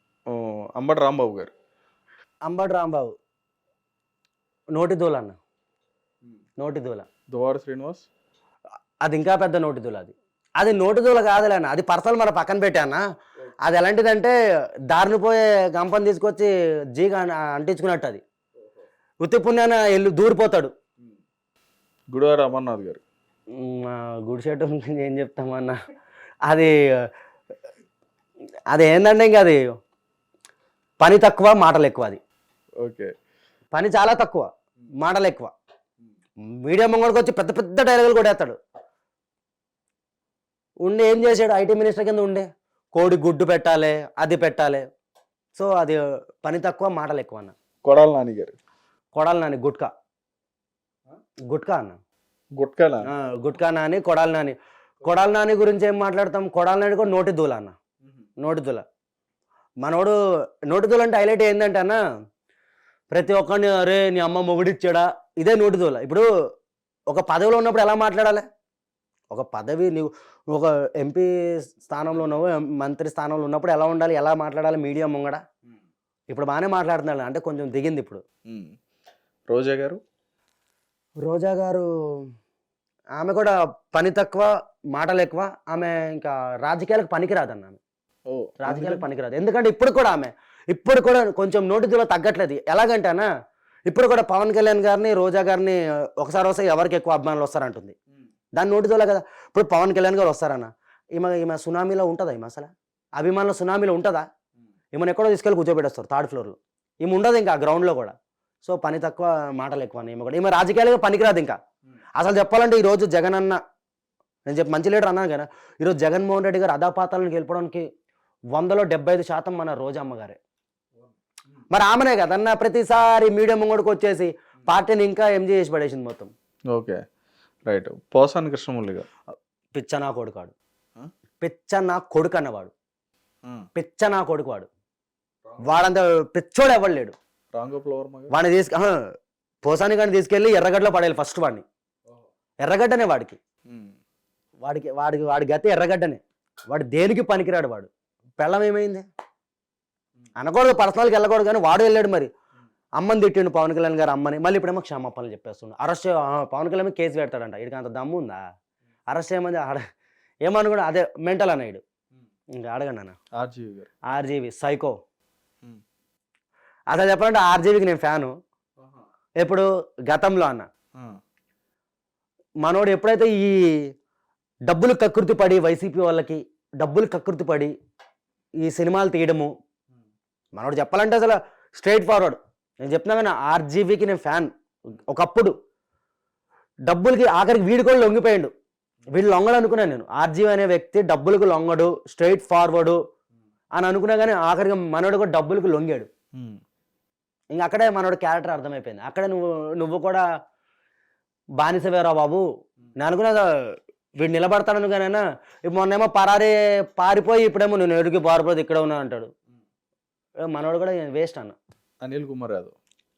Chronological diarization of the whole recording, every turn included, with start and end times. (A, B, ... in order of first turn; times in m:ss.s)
0:00.3-0:01.5 A
0:02.5-0:03.1 B
0:04.8-0:05.4 B
0:06.6-0:07.1 B
0:07.3-0:08.1 A
0:09.0-0:13.0 B
0:13.6-0:14.3 B
0:14.9-0:18.2 B
0:19.2-0:20.7 B
0:22.1-0:23.0 A
0:23.6-0:25.8 B
0:28.7-0:29.6 B
0:31.0-0:32.2 B
0:32.8-0:33.1 A
0:33.7-0:34.5 B
0:35.0-0:35.5 B
0:36.6-0:38.6 B
0:40.8-0:44.9 B
0:45.6-0:47.5 B
0:47.8-0:48.6 A
0:49.1-0:49.9 B
0:51.5-0:52.0 B
0:52.6-0:53.1 A
0:53.0-0:57.8 B
0:58.4-0:58.8 B
0:59.8-1:00.2 B
1:00.7-1:02.0 B
1:03.1-1:06.2 B
1:07.1-1:08.4 B
1:09.3-1:15.4 B
1:16.3-1:18.2 B
1:18.5-1:18.8 A
1:19.5-1:20.0 A
1:21.2-1:22.3 B
1:23.2-1:27.8 B
1:28.3-1:29.0 A
1:28.6-1:33.3 B
1:33.9-1:38.0 B
1:38.6-1:44.2 B
1:44.9-1:51.6 B
1:52.2-1:53.6 B
1:54.5-1:57.8 B
1:58.5-2:00.4 B
2:01.7-2:06.3 B
2:06.7-2:07.0 A
2:07.7-2:09.1 A
2:09.7-2:10.5 B
2:11.4-2:12.7 B
2:13.8-2:14.7 B
2:15.5-2:15.8 A
2:15.6-2:17.2 B
2:17.5-2:18.3 A
2:18.3-2:19.0 B
2:19.6-2:21.6 B
2:22.6-2:23.4 B
2:23.7-2:24.0 A
2:24.6-2:29.0 B
2:30.4-2:32.3 B
2:33.0-2:38.4 B
2:39.1-2:39.8 B
2:40.5-2:41.8 B
2:42.6-2:43.2 B
2:43.3-2:43.9 A
2:44.1-2:45.0 B
2:46.9-2:48.3 B
2:49.4-2:50.7 B
2:52.6-2:53.9 B
2:54.7-2:57.7 B
2:58.6-2:59.5 B
3:00.6-3:05.5 B
3:06.9-3:08.5 B
3:09.1-3:13.0 B
3:13.8-3:16.1 B
3:16.4-3:16.6 A
3:17.5-3:20.2 B
3:21.6-3:22.4 B
3:23.0-3:23.4 B
3:24.2-3:29.3 B
3:30.5-3:31.6 B
3:32.0-3:32.8 A